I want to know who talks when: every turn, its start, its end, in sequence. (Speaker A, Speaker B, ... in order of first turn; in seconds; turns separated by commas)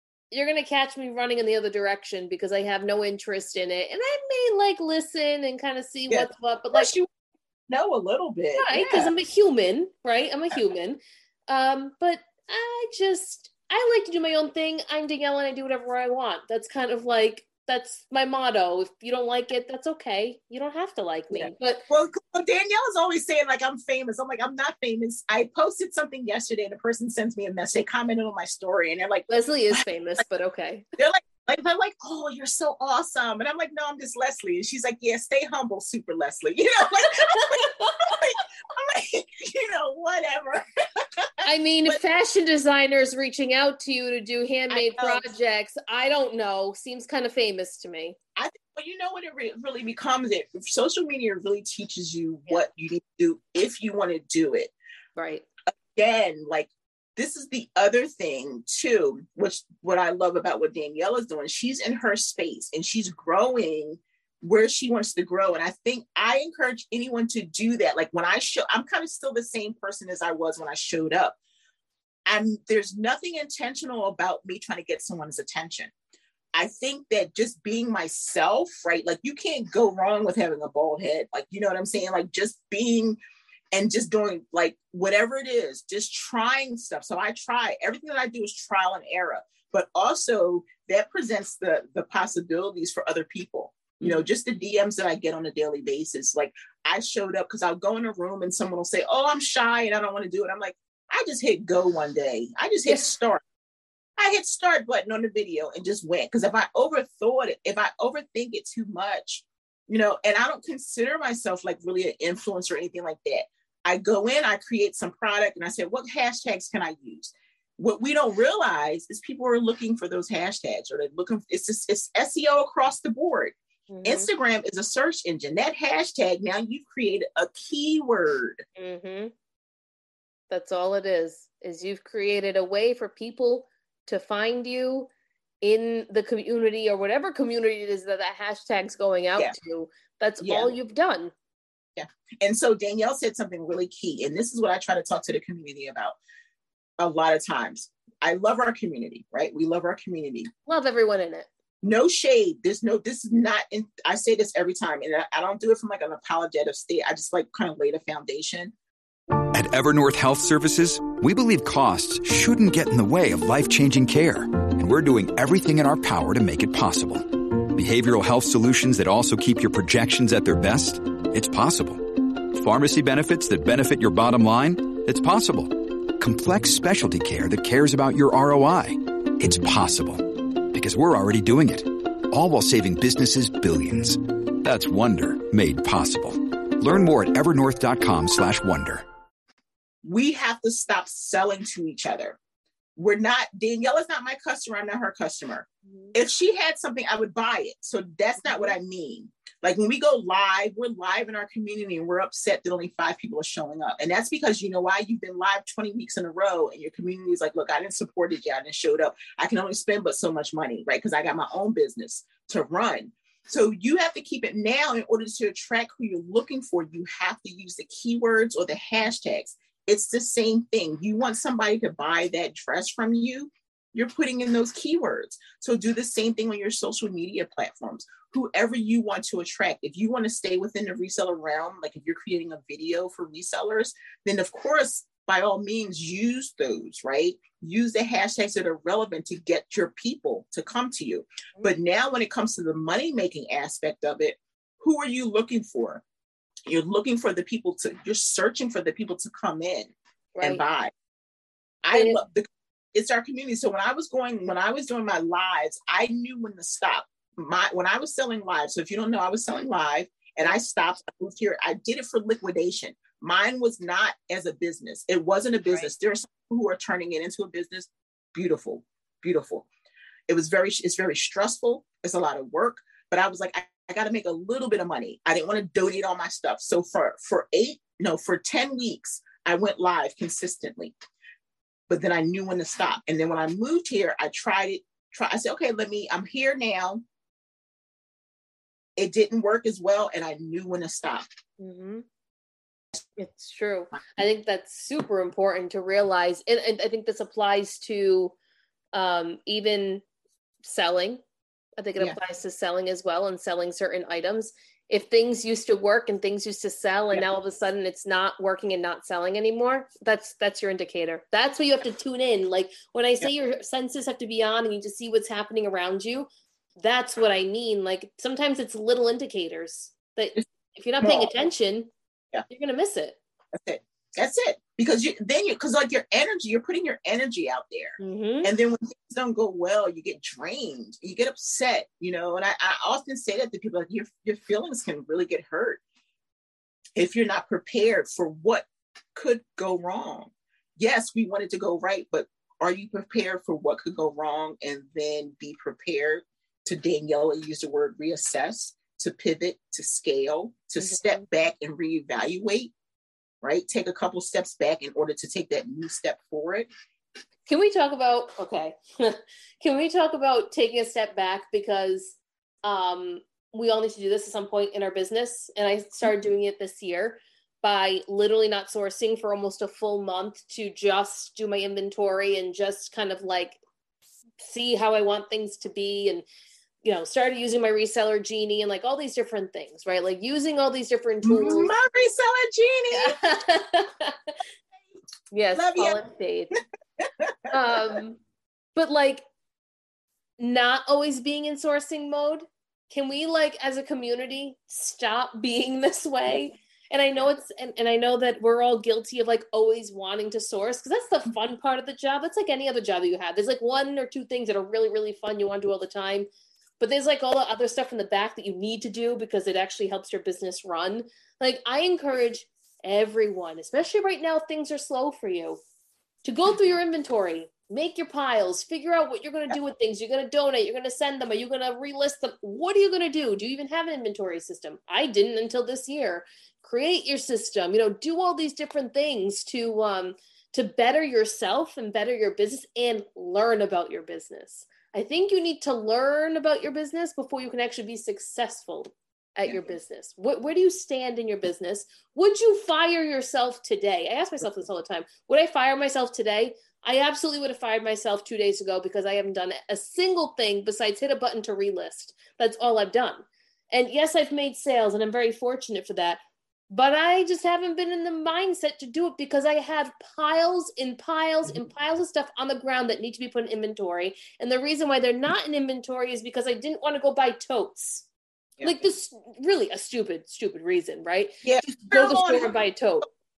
Speaker A: 0.3-6.9, Speaker B: 6.1-7.1, Speaker B: 7.7-9.1, Speaker A: 8.6-21.8, Speaker B: 21.3-29.8, Speaker A: 29.3-30.9, Speaker B: 31.0-42.0, Speaker A: 37.1-38.2, Speaker A: 41.4-48.2, Speaker B: 44.7-45.3, Speaker B: 48.4-54.7, Speaker A: 55.2-55.5, Speaker B: 55.8-71.4, Speaker B: 72.3-75.9, Speaker B: 76.5-83.2, Speaker B: 83.7-103.4, Speaker B: 104.2-128.7, Speaker A: 123.9-124.3, Speaker A: 128.8-129.3, Speaker A: 130.5-135.1, Speaker A: 135.6-141.3, Speaker B: 140.4-140.7, Speaker B: 142.0-146.2, Speaker B: 147.0-150.5, Speaker A: 150.7-151.5, Speaker B: 151.8-158.7, Speaker C: 159.5-189.1, Speaker B: 190.0-192.4, Speaker B: 193.0-246.0, Speaker A: 195.9-196.1, Speaker B: 246.7-250.9, Speaker A: 250.4-250.6, Speaker B: 251.8-269.7, Speaker A: 251.9-252.2, Speaker B: 270.3-280.9, Speaker B: 281.9-287.0, Speaker B: 289.0-291.3, Speaker A: 291.6-292.1, Speaker A: 293.2-298.3, Speaker A: 298.9-300.0, Speaker A: 300.6-301.2, Speaker A: 301.8-316.3, Speaker A: 316.8-321.9, Speaker B: 321.0-321.3, Speaker A: 322.5-323.2, Speaker B: 323.5-335.8, Speaker A: 328.0-328.5, Speaker B: 337.0-352.7, Speaker A: 350.8-351.2, Speaker B: 353.4-356.7, Speaker A: 357.5-373.6, Speaker A: 374.4-376.3, Speaker A: 376.8-381.7, Speaker B: 381.2-383.2, Speaker A: 382.9-384.4, Speaker A: 385.3-386.6, Speaker B: 385.6-386.0, Speaker B: 387.0-387.5, Speaker A: 387.5-388.2, Speaker A: 388.8-389.2, Speaker A: 390.4-406.3, Speaker A: 406.8-415.6, Speaker A: 416.2-456.2, Speaker A: 456.7-468.1, Speaker A: 468.6-473.1, Speaker B: 471.4-472.6